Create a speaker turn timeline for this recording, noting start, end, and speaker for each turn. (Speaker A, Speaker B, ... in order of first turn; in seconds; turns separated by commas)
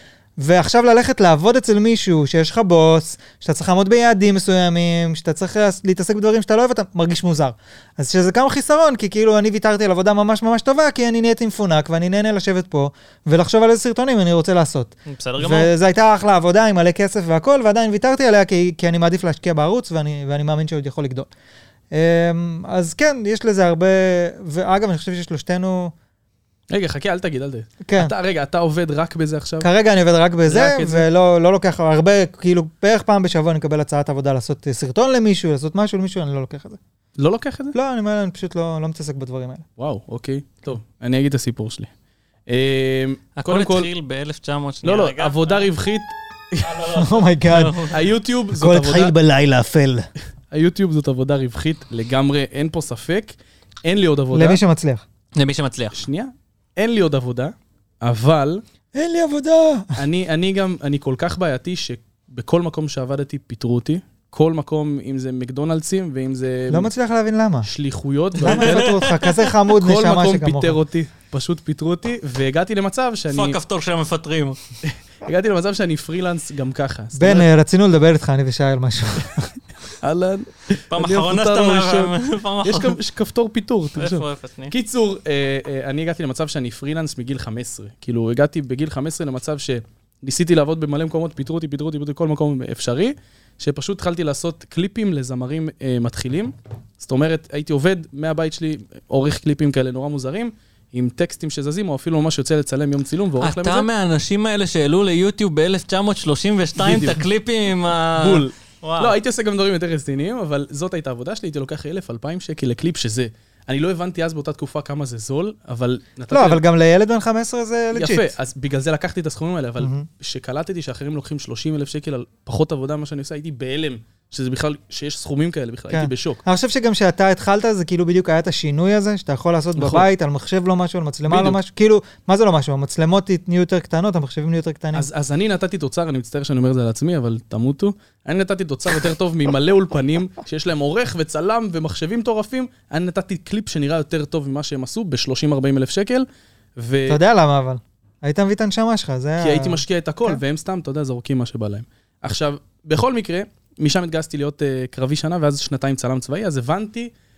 Speaker A: 0.4-21.3, Speaker B: 15.1-15.7, Speaker A: 21.9-25.9, Speaker C: 26.7-29.7, Speaker A: 27.8-28.1, Speaker A: 29.6-36.8, Speaker C: 30.5-31.1, Speaker C: 37.2-37.8, Speaker A: 37.7-39.6, Speaker C: 39.8-41.9, Speaker C: 42.5-43.9, Speaker B: 43.4-45.7, Speaker C: 44.8-46.8, Speaker B: 46.6-48.0, Speaker A: 47.0-47.9, Speaker C: 47.9-49.1, Speaker A: 48.5-50.1, Speaker C: 50.5-54.6, Speaker A: 54.3-55.0, Speaker B: 55.4-56.0, Speaker C: 55.9-58.6, Speaker A: 58.9-60.0, Speaker C: 60.0-66.9, Speaker A: 66.7-67.7, Speaker C: 67.7-69.0, Speaker A: 68.4-70.8, Speaker B: 68.4-69.4, Speaker C: 69.7-73.6, Speaker B: 73.3-74.6, Speaker C: 74.8-77.5, Speaker A: 77.2-79.5, Speaker C: 80.0-103.9, Speaker B: 80.9-83.0, Speaker B: 84.0-84.7, Speaker B: 103.4-109.2, Speaker C: 106.8-107.2, Speaker C: 108.2-116.6, Speaker A: 116.3-118.3, Speaker C: 117.9-126.4, Speaker A: 119.8-120.1, Speaker A: 125.9-135.1, Speaker C: 129.8-130.1, Speaker C: 131.3-131.6, Speaker C: 134.9-146.3, Speaker C: 146.8-147.2, Speaker A: 147.1-150.4, Speaker C: 149.4-157.1